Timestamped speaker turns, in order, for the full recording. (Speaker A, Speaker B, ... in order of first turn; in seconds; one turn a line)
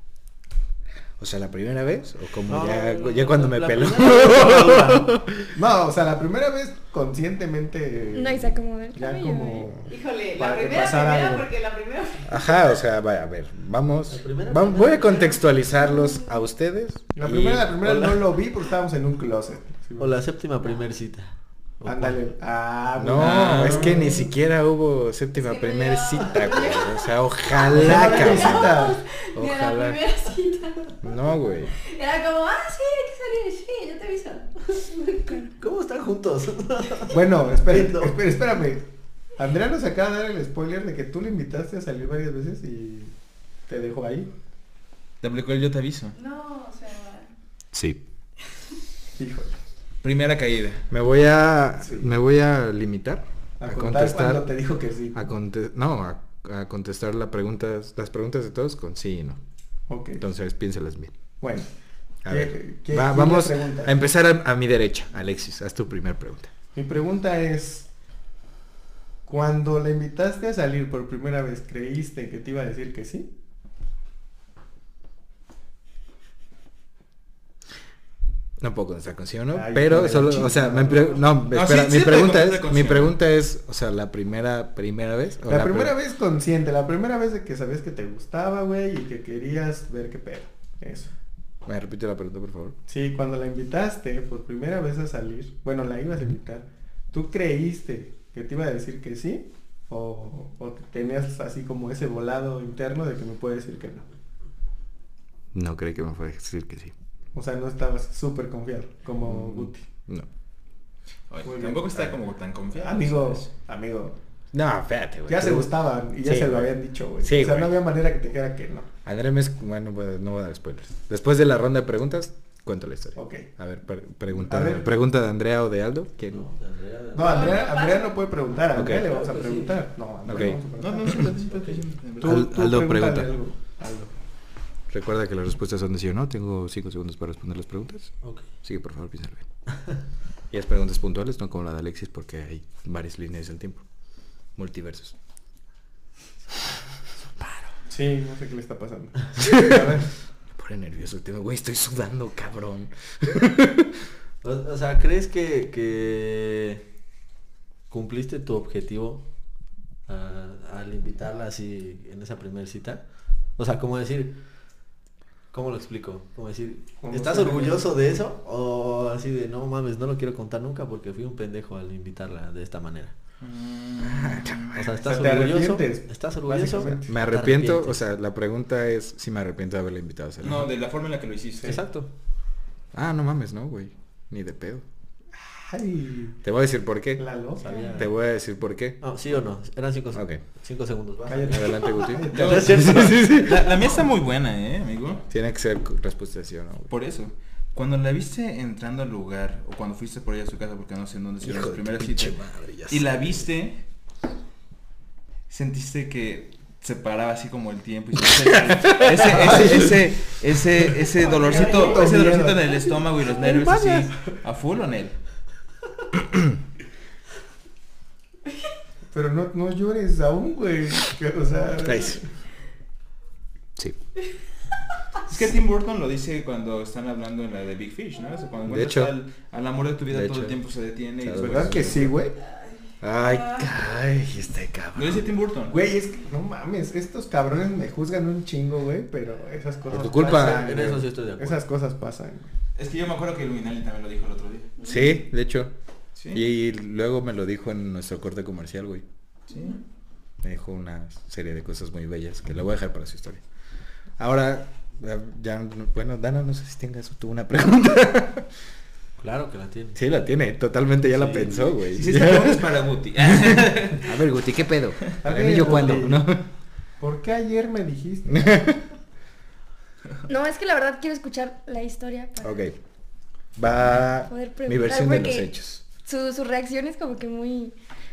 Speaker A: 1.2-5.4
Speaker B: 2.5-5.1
Speaker C: 5.5-11.5
Speaker D: 8.1-9.7
Speaker E: 9.9-12.6
Speaker A: 12.2-17.7
Speaker B: 14.1-15.3
Speaker E: 15.1-15.4
Speaker C: 17.1-20.1
Speaker B: 17.8-18.1
Speaker B: 20.0-22.2
Speaker C: 21.8-23.9
Speaker A: 23.0-28.8
Speaker F: 23.1-24.1
Speaker E: 25.4-31.1
Speaker C: 27.7-29.0
Speaker A: 29.3-30.0
Speaker A: 31.0-31.7
Speaker E: 31.7-35.4
Speaker B: 35.5-38.1
Speaker C: 37.1-43.1
Speaker C: 43.7-44.3
Speaker F: 45.2-46.1
Speaker E: 46.1-47.3
Speaker A: 47.7-48.0
Speaker C: 49.1-49.6
Speaker F: 50.0-50.8
Speaker A: 50.9-54.5
Speaker C: 51.8-52.1
Speaker C: 53.6-55.2
Speaker A: 55.1-59.4
Speaker C: 59.9-60.2
Speaker A: 60.2-61.1
Speaker C: 61.4-64.0
Speaker A: 62.2-66.5
Speaker C: 66.7-67.9
Speaker C: 69.2-73.3
Speaker A: 78.6-85.9
Speaker C: 79.5-81.2
Speaker B: 80.1-80.5
Speaker F: 81.3-83.1
Speaker C: 85.5-91.1
Speaker A: 91.6-92.8
Speaker C: 92.9-104.1
Speaker A: 105.5-106.9
Speaker C: 107.3-109.8
Speaker A: 109.2-110.3
Speaker F: 111.3-113.5
Speaker C: 111.4-112.1
Speaker C: 112.7-114.2
Speaker A: 114.5-117.8
Speaker C: 115.3-118.9
Speaker A: 119.0-126.5
Speaker C: 123.2-123.5
Speaker C: 124.5-124.9
Speaker B: 126.3-127.5
Speaker C: 127.1-131.5
Speaker E: 127.2-128.2
Speaker A: 128.7-129.1
Speaker B: 129.0-129.8
Speaker A: 130.2-130.6
Speaker F: 130.8-132.3
Speaker B: 131.5-131.8
Speaker C: 132.2-134.1
Speaker A: 132.2-133.3
Speaker A: 134.9-139.5
Speaker B: 138.2-138.5
Speaker A: 140.5-143.9
Speaker A: 144.5-145.2
Speaker C: 147.9-150.1
Speaker A: 149.5-150.0
Speaker A: 150.5-153.9
Speaker B: 154.4-156.9
Speaker B: 157.9-159.3
Speaker B: 160.1-164.4
Speaker B: 165.5-173.1
Speaker C: 167.0-167.9
Speaker F: 173.4-174.8
Speaker A: 174.0-174.9
Speaker B: 174.7-178.0
Speaker C: 175.0-177.2
Speaker A: 177.1-180.7
Speaker F: 180.4-181.8
Speaker B: 181.6-182.1
Speaker A: 182.9-184.8
Speaker C: 185.4-186.4
Speaker A: 186.4-187.3
Speaker C: 187.2-187.7
Speaker B: 187.6-188.1
Speaker A: 187.9-189.0
Speaker B: 189.0-193.7
Speaker A: 190.1-190.4
Speaker C: 191.3-192.8
Speaker A: 191.5-193.7
Speaker F: 192.3-195.2
Speaker A: 195.2-196.9
Speaker F: 196.9-202.3
Speaker A: 201.4-203.1
Speaker F: 202.9-203.8
Speaker F: 205.5-215.2
Speaker A: 208.7-209.2
Speaker C: 209.2-210.0
Speaker E: 211.2-212.0
Speaker C: 211.3-214.2
Speaker C: 219.1-222.2
Speaker A: 221.8-222.2
Speaker F: 225.3-232.1
Speaker A: 228.7-229.1
Speaker A: 230.1-230.6
Speaker A: 231.2-232.1
Speaker C: 231.3-232.4
Speaker E: 232.5-233.7
Speaker A: 233.0-235.2
Speaker F: 234.9-235.8
Speaker C: 235.7-242.5
Speaker A: 239.9-240.7
Speaker B: 240.1-241.6
Speaker F: 242.8-244.7
Speaker A: 244.8-245.7
Speaker F: 246.2-246.4
Speaker A: 246.3-249.0
Speaker F: 249.5-249.8
Speaker A: 250.4-253.4
Speaker A: 254.2-258.5
Speaker B: 259.2-260.0
Speaker A: 259.9-262.6
Speaker B: 261.1-261.8
Speaker F: 261.9-264.2
Speaker A: 263.3-266.4
Speaker C: 265.2-266.3
Speaker C: 267.0-268.7
Speaker A: 268.3-268.8
Speaker D: 270.3-272.6
Speaker A: 272.4-272.8
Speaker A: 273.6-275.8
Speaker D: 274.3-275.5
Speaker D: 276.0-277.7